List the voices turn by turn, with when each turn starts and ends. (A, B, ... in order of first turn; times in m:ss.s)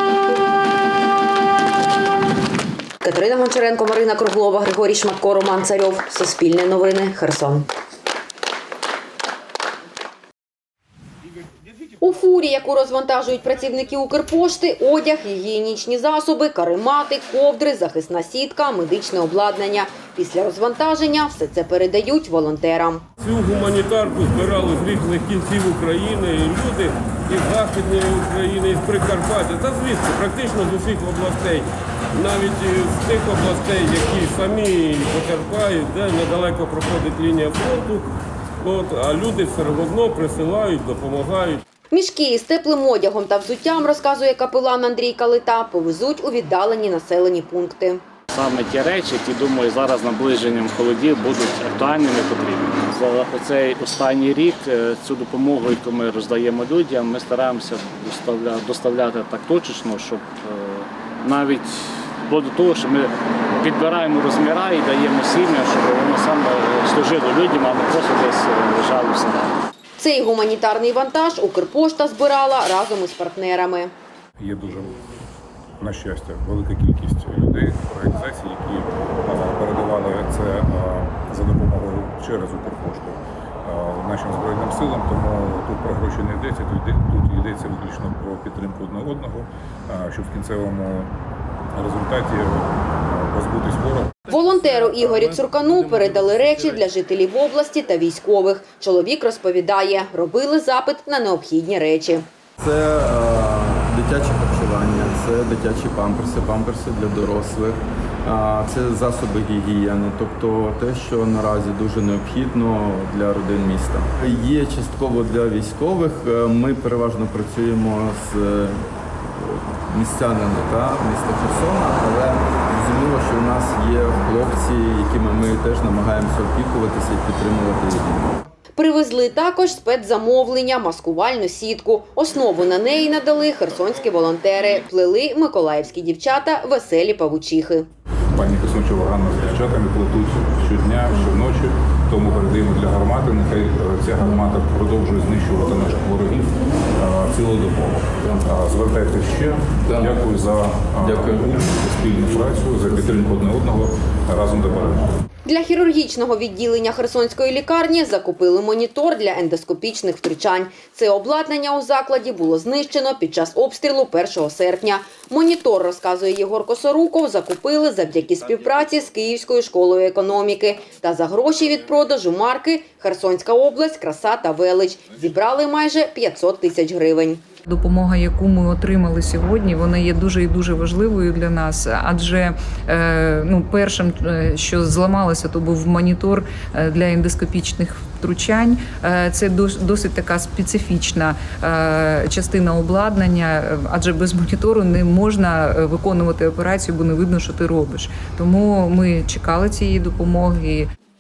0:03.0-0:07.7 A
0:12.0-0:23.0 A
0:23.2-0:31.6 B
0:32.2-0:38.0 B
0:38.6-0:41.6 B
0:41.9-0:48.0 A
0:48.3-1:09.5 C
1:10.0-1:13.9 A
1:14.4-1:15.0 D
1:15.8-1:31.1 D
1:31.8-1:34.2 D
1:34.3-1:42.3 A
1:42.6-1:58.8 E
1:59.4-2:08.3 E
2:08.8-2:17.9 A
2:18.3-2:35.1 D
2:29.9-2:30.3 E
2:31.0-2:31.7 E
2:35.5-2:57.4 A
2:57.7-3:20.9 F